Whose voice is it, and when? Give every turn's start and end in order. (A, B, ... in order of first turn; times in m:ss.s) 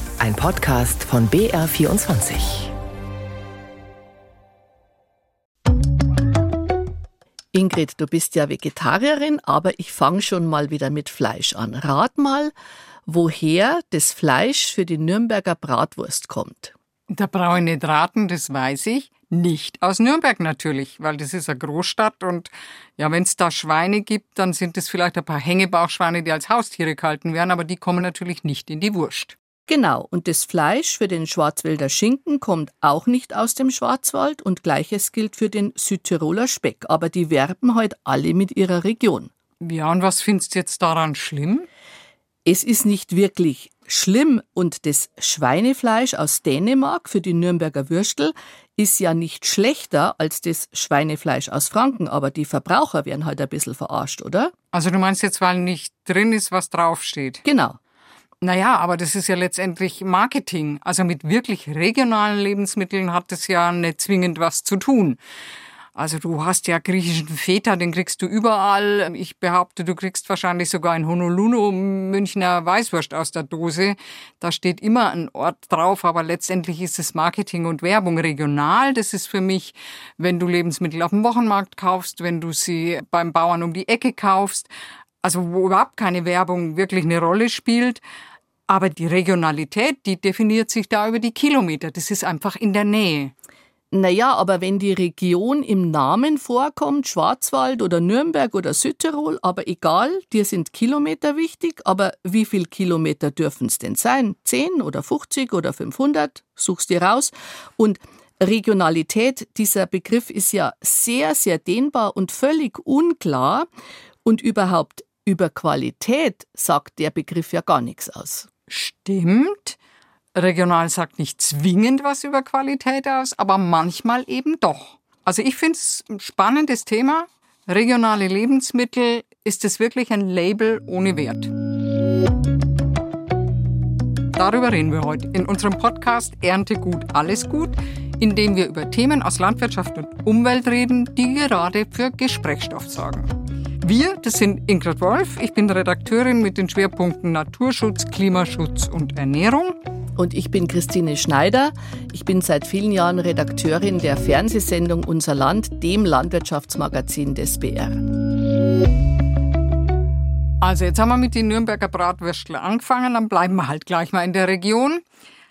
0:00.2-0:02.7 A
0:07.5-0:12.5 B
0:13.0-0:16.7 B
0:17.1-0:29.4 C
0:29.7-0:39.3 B
0:39.6-0:41.7 C
0:42.4-0:54.5 B
0:54.7-0:57.4 C
0:57.4-0:57.8 B
0:58.4-1:05.2 C
1:05.9-1:24.7 C
1:25.2-1:28.0 C
1:28.7-1:33.3 C
1:33.9-1:53.7 B
1:54.2-1:58.5 B
1:58.7-1:59.8 C
2:00.3-2:11.5 C
2:14.4-2:29.8 C
2:30.2-2:38.0 B
2:40.6-2:45.0 C